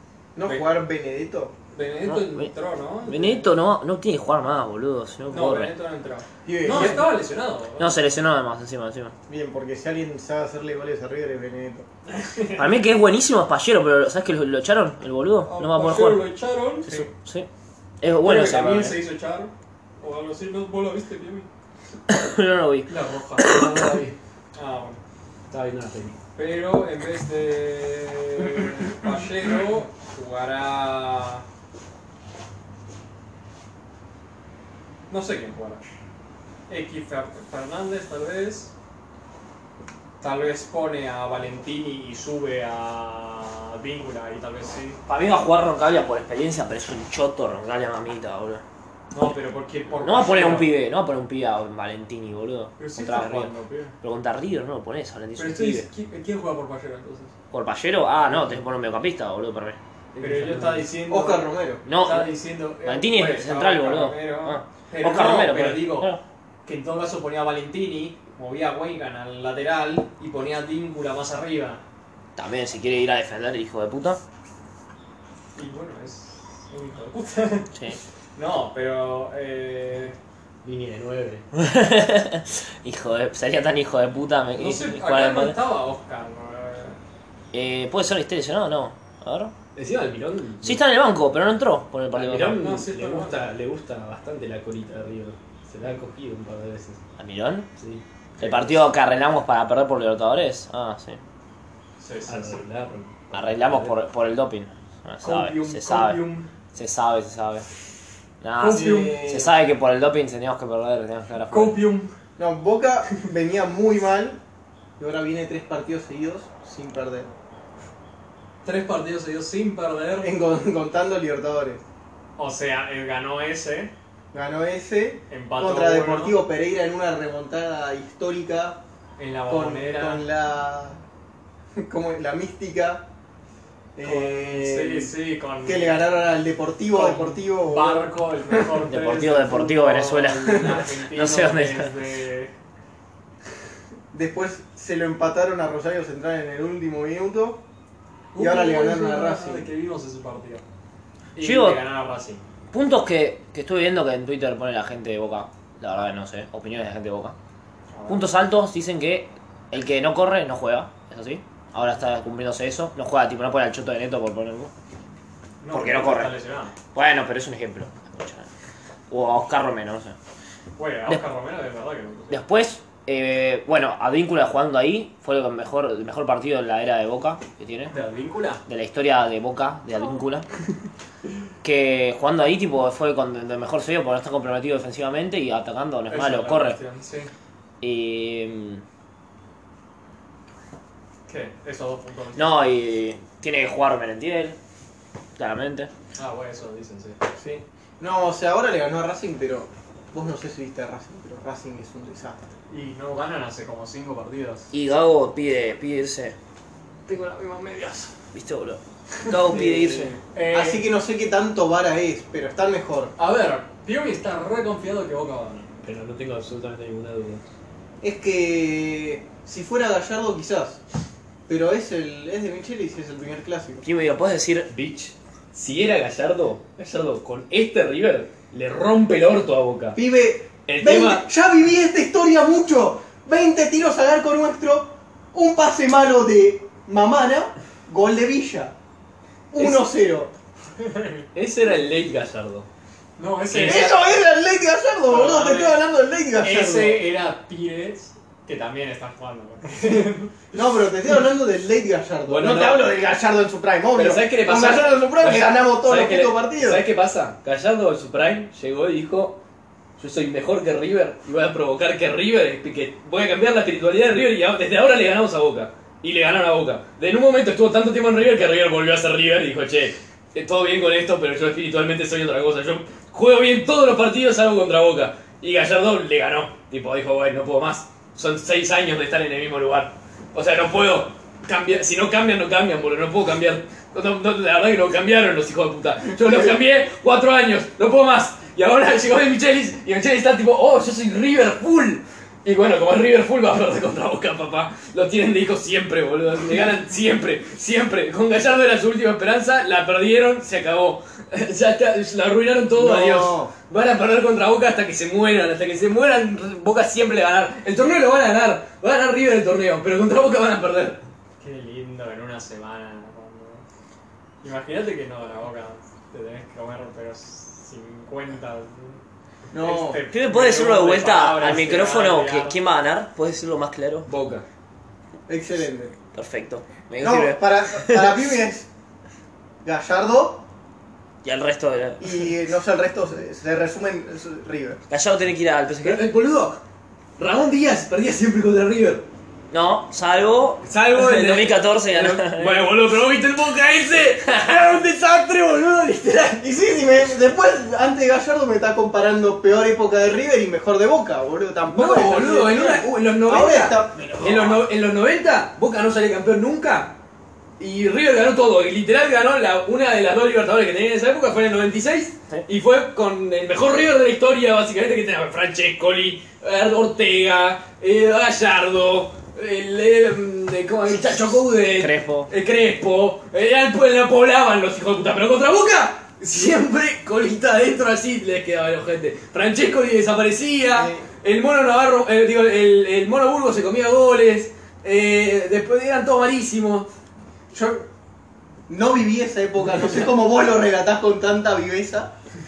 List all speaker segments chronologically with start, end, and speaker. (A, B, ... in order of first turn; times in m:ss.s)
0:00.3-0:01.5 A
0:01.7-0:03.6 B
0:02.0-0:02.5 C
0:03.0-0:05.7 C
0:05.3-0:08.0 B
0:06.4-0:07.0 A
0:06.7-0:07.0 C
0:07.8-0:09.1 C
0:09.3-0:11.8 A
0:12.1-0:12.7 B
0:12.6-0:16.3 C
0:15.4-0:17.1 B
0:16.8-0:17.5 C
0:18.0-0:19.0 C
0:18.2-0:21.5 B
0:22.1-0:23.8 C
0:22.9-0:23.6 B
0:23.4-0:24.1 D
0:24.5-0:25.0 B
0:25.5-0:26.2 D
0:26.3-0:31.4 B
0:35.1-0:35.8 B
0:36.7-0:38.7 B
0:40.2-0:45.0 B
0:45.1-0:48.6 C
0:49.1-0:50.7 B
0:50.0-0:53.5 C
0:52.8-0:53.9 B
0:54.0-0:55.9 C
0:55.4-0:57.3 B
0:57.5-0:59.8 C
1:00.1-1:00.9 D
1:00.2-1:06.1 B
1:01.1-1:01.8 A
1:01.8-1:02.3 C
1:02.8-1:06.2 C
1:06.6-1:11.8 B
1:12.4-1:14.2 C
1:15.5-1:17.7 B
1:18.4-1:20.2 B
1:20.6-1:21.4 D
1:21.5-1:25.6 C
1:24.6-1:27.0 B
1:27.5-1:29.5 C
1:29.7-1:30.8 D
1:30.6-1:32.6 C
1:32.1-1:37.0 D
1:32.5-1:33.5 B
1:37.2-1:37.7 C
1:37.8-1:38.8 D
1:38.4-1:41.2 C
1:42.0-1:42.6 B
1:42.3-1:43.9 D
1:43.3-1:47.6 C
1:45.2-1:46.5 B
1:48.4-1:51.8 C
1:48.6-1:49.3 B
1:48.6-1:49.5 A
1:51.5-1:52.1 B
1:52.4-1:54.4 A
1:55.0-1:57.3 A
1:58.6-2:00.4 B
2:00.2-2:01.8 A
2:02.4-2:03.9 B
2:04.3-2:08.8 A
2:05.3-2:06.4 B
2:09.2-2:10.2 B
2:09.5-2:11.0 A
2:11.8-2:13.0 A
2:14.0-2:15.1 A
2:14.0-2:16.0 B
2:15.6-2:18.1 A
2:16.9-2:22.5 B
2:18.8-2:21.9 C
2:24.1-2:27.6 A
2:28.3-2:30.6 B
2:28.4-2:29.7 A
2:31.3-2:32.4 B
2:31.4-2:31.8 C
2:32.7-2:37.4 C
2:37.9-2:38.3 B
2:38.1-2:44.7 C
2:45.6-2:46.7 B
2:45.7-2:46.3 C
2:46.9-2:48.5 C
2:49.1-2:50.2 C
2:50.8-2:52.4 B
2:52.3-2:58.0 C
2:57.9-2:58.6 B
2:58.6-3:00.4 C
3:01.6-3:06.8 C
3:06.1-3:07.3 B
3:07.8-3:08.8 C
3:11.3-3:12.5 B
3:12.4-3:14.6 C
3:15.4-3:15.9 C
3:16.2-3:17.2 B
3:17.4-3:22.4 A
3:22.7-3:24.7 B
3:24.7-3:26.4 C
3:27.1-3:28.1 B
3:28.3-3:30.2 C
3:29.2-3:29.6 B
3:29.5-3:33.1 A
3:30.3-3:30.8 B
3:33.2-3:35.7 B
3:35.8-3:37.4 D
3:38.0-3:40.8 A
3:41.5-3:43.8 A
3:43.8-3:44.7 C
3:44.7-3:50.0 D
3:49.9-3:58.7 A
3:50.6-3:51.2 D
3:59.5-4:00.3 A
3:59.6-3:59.9 D
4:00.8-4:01.2 B
4:01.3-4:02.7 D
4:03.2-4:04.0 B
4:03.5-4:07.0 A
4:05.1-4:05.8 B
4:06.4-4:10.4 B
4:09.8-4:16.8 A
4:12.3-4:13.0 D
4:13.9-4:19.4 D
4:20.0-5:11.0 D
5:02.7-5:03.5 A
5:11.4-5:13.6 B
5:14.4-5:19.0 B
5:19.5-5:20.0 A
5:19.6-5:22.6 B
5:20.1-5:24.1 C
5:24.1-5:24.4 D
5:25.3-5:25.9 A
5:26.1-5:28.2 C
5:27.0-5:28.7 A
5:29.6-5:30.4 A
5:31.2-5:32.3 C
5:32.0-5:34.8 A
5:34.9-5:36.0 C
5:35.8-5:36.6 D
5:37.2-5:39.0 D
5:39.5-5:42.7 C
5:40.6-5:46.4 D
5:44.2-5:44.7 C
5:46.4-5:54.1 A
5:51.7-5:57.0 D
5:54.0-5:54.6 C
5:57.6-6:26.9 D
6:11.7-6:12.3 C
6:20.7-6:21.0 A
6:27.5-6:27.9 A
6:28.7-6:32.1 A
6:29.7-6:30.1 D